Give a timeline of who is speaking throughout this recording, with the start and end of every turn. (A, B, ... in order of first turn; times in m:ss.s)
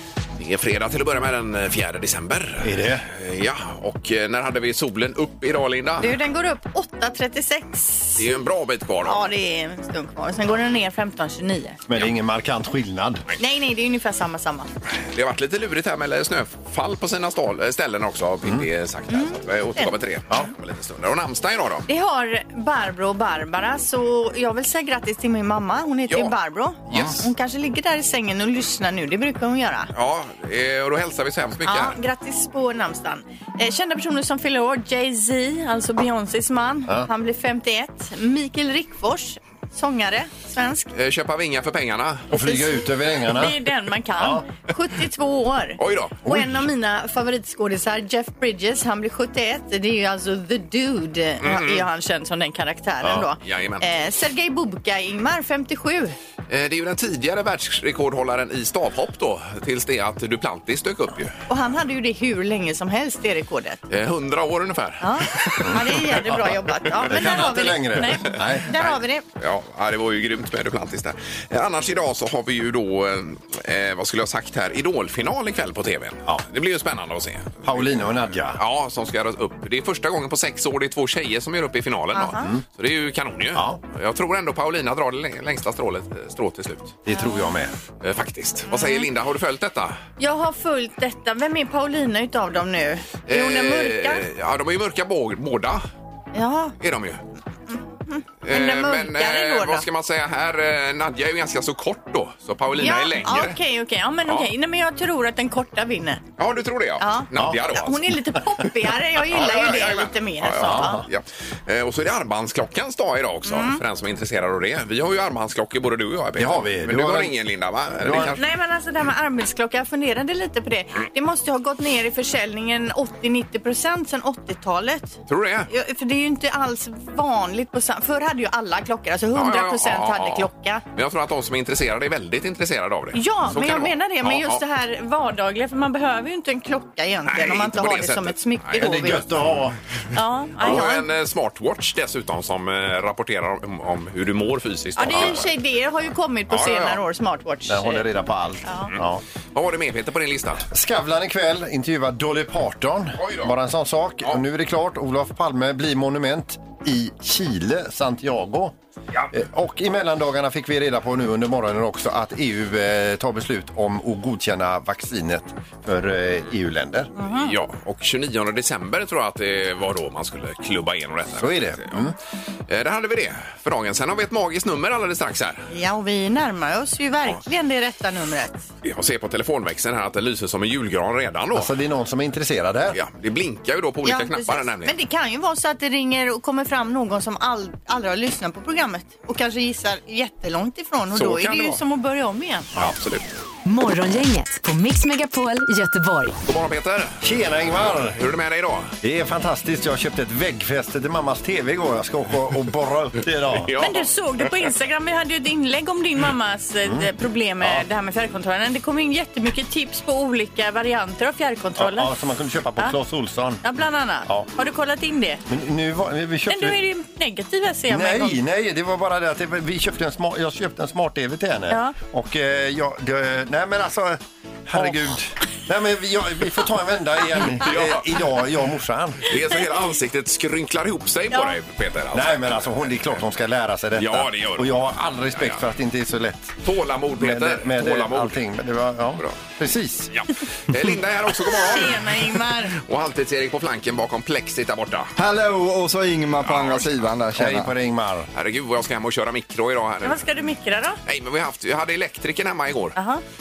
0:00.4-0:06.2 A
0:02.6-0:03.0 B
0:06.0-0:08.2 C
0:08.2-0:09.3 A
0:09.0-0:11.8 C
0:11.9-0:13.2 B
0:13.4-0:14.7 C
0:15.0-0:21.8 A
0:19.1-0:19.9 C
0:21.9-0:29.9 C
0:26.9-0:27.2 B
0:29.9-0:32.0 A
0:31.6-0:40.9 C
0:40.9-0:42.3 A
0:42.3-0:43.6 B
0:42.3-0:42.6 C
0:43.2-0:56.2 C
0:45.8-0:46.2 A
0:46.2-0:46.6 B
0:51.4-0:51.9 A
0:53.0-0:53.8 A
0:56.5-1:01.4 A
1:01.5-1:03.8 C
1:03.9-1:06.1 A
1:05.0-1:09.2 C
1:07.0-1:08.7 B
1:07.1-1:07.5 A
1:08.7-1:17.9 A
1:17.6-1:18.6 B
1:18.6-1:27.0 A
1:22.1-1:22.5 C
1:23.5-1:23.8 B
1:27.0-1:27.7 B
1:27.1-1:27.4 C
1:28.0-1:30.0 A
1:28.7-1:29.0 C
1:30.2-1:34.2 C
1:33.3-1:35.8 A
1:36.3-1:36.7 C
1:36.8-1:37.2 A
1:37.7-1:39.8 C
1:38.4-1:43.6 A
1:42.8-1:46.2 C
1:46.4-1:48.0 A
1:47.0-1:51.0 C
1:47.3-1:47.7 B
1:49.3-1:58.4 A
1:50.6-1:51.0 B
1:53.4-1:53.8 C
1:56.4-1:57.3 B
1:58.0-1:58.4 B
1:58.3-2:05.2 C
2:05.3-2:05.7 A
2:05.7-2:10.8 C
2:09.3-2:14.6 A
2:13.1-2:19.2 C
2:17.2-2:19.2 A
2:18.8-2:19.8 B
2:20.1-2:21.0 C
2:20.6-2:25.5 A
2:25.0-2:28.1 C
2:26.5-2:27.0 A
2:27.6-2:29.2 B
2:28.6-2:28.9 C
2:28.9-2:30.7 A
2:30.7-2:38.7 B
2:33.2-2:33.5 A
2:39.3-2:47.1 B
2:47.2-2:47.5 C
2:47.3-2:52.0 A
2:51.4-2:52.1 B
2:52.7-2:55.7 A
2:55.7-2:58.6 C
2:58.8-3:01.7 A
3:01.5-3:03.0 B
3:02.9-3:04.9 A
3:04.0-3:12.7 C
3:11.1-3:11.8 A
3:12.7-3:13.2 A
3:13.6-3:16.4 D
3:16.4-3:17.2 A
3:17.2-3:18.2 B
3:18.1-3:18.9 A
3:19.0-3:23.7 B
3:23.5-3:24.1 A
3:23.8-3:32.1 C
3:31.8-3:33.6 B
3:33.6-3:35.4 C
3:34.2-3:34.5 B
3:35.5-3:36.8 B
3:36.5-3:38.4 C
3:37.9-3:49.3 B
3:41.7-3:42.0 C
3:47.6-3:48.2 A
3:49.2-3:52.7 A
3:52.1-3:56.6 B
3:54.0-3:54.8 A
3:56.6-3:58.4 A
3:57.2-4:00.1 B
4:00.1-4:05.1 A
4:01.4-4:02.7 C
4:05.2-4:07.7 E
4:06.4-4:07.1 A
4:07.3-4:08.3 B
4:08.3-4:10.2 A
4:10.0-4:11.0 C
4:11.0-4:13.0 A
4:13.0-4:13.2 C